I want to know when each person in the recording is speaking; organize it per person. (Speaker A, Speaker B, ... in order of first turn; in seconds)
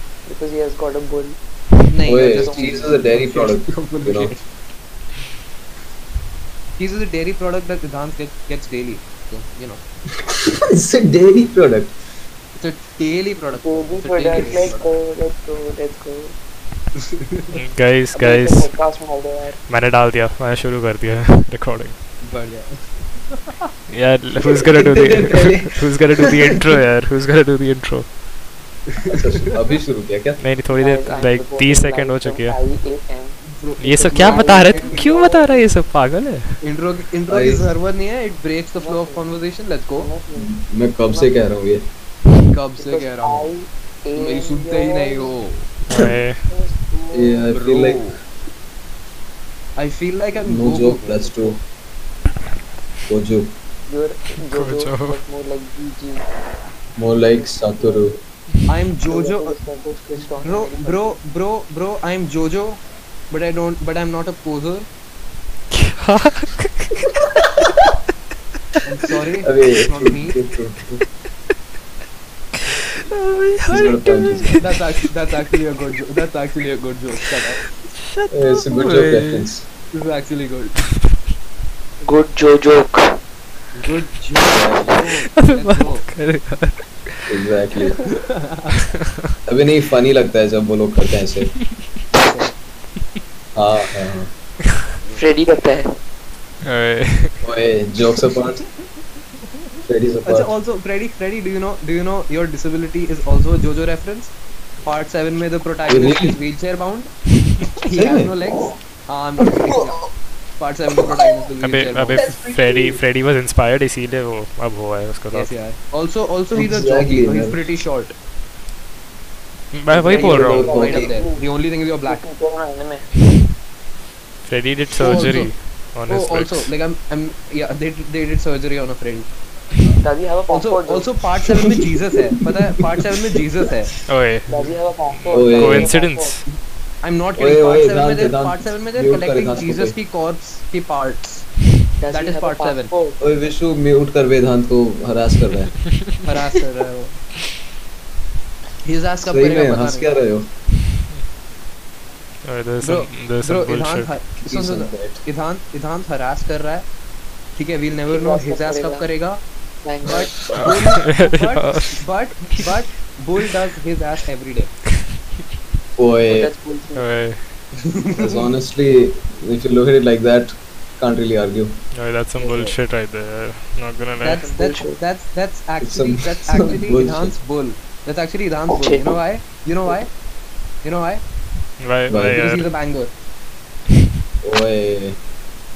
Speaker A: 0.3-1.4, 2.1-2.9, 13.6-16.4, 18.1-19.6, 30.7-33.4, 34.1-35.7, 38.8-39.2, 40.0-40.5, 41.1-41.4, 42.8-45.3, 46.5-47.5, 53.9-56.2, 57.2-58.1, 59.0-61.2, 82.0-83.0, 95.2-95.9, 120.0-121.5, 122.0-123.1, 130.0-131.1, 134.5-136.4, 142.0-143.2, 158.1-159.1, 159.8-160.7, 166.3-167.1, 174.2-175.0, 178.7-179.2
Speaker B: 1.9-4.4, 6.8-9.8, 12.6-14.8, 17.1-17.5, 22.2-23.7, 29.0-29.5, 33.5-35.0, 36.6-40.1, 42.5-43.5, 44.1-45.7, 47.5-48.2, 49.8-51.4, 58.7-59.6, 60.4-64.9, 68.8-70.3, 74.6-77.6, 79.9-80.8, 83.7-86.0, 92.1-92.5, 100.2-107.1, 107.8-110.0, 110.6-112.2, 115.3-118.1, 120.1-122.2, 125.0-125.5, 126.1-129.3, 130.5-133.9, 137.0-141.5, 142.1-142.9, 146.2-147.2, 148.8-150.1, 152.8-156.8, 157.6-159.4, 160.0-164.8, 168.0-168.4, 174.2-180.1, 180.8-181.2, 182.3-183.1
Speaker C: 2.1-4.3, 10.2-11.9, 24.5-26.4, 29.1-30.4, 37.3-37.6, 40.3-41.8, 47.1-48.2, 50.5-51.6, 53.1-53.5, 57.0-58.2, 69.4-71.0, 73.7-74.6, 78.3-79.6, 84.5-85.1, 87.3-88.0, 89.5-91.5, 93.5-94.3, 97.4-98.6, 99.8-100.5, 105.9-106.4, 107.9-108.3, 112.2-113.0, 116.5-117.6, 120.0-121.1, 135.3-135.9, 137.4-139.9, 143.2-145.7, 149.2-150.5, 154.4-155.2, 166.0-166.5, 168.2-171.8, 175.8-177.3, 182.1-182.4, 184.4-185.2
Speaker D: 17.5-18.7, 19.7-21.9, 23.9-28.1, 30.4-32.6, 33.8-36.6, 45.9-46.4, 54.5-55.2, 65.7-67.0, 73.0-74.7, 78.0-79.5, 85.3-87.3, 96.6-97.4, 111.6-115.5, 119.7-120.8, 124.4-126.7, 134.1-136.4, 152.4-154.1, 160.6-162.0, 166.9-167.4, 171.9-174.5, 181.8-182.7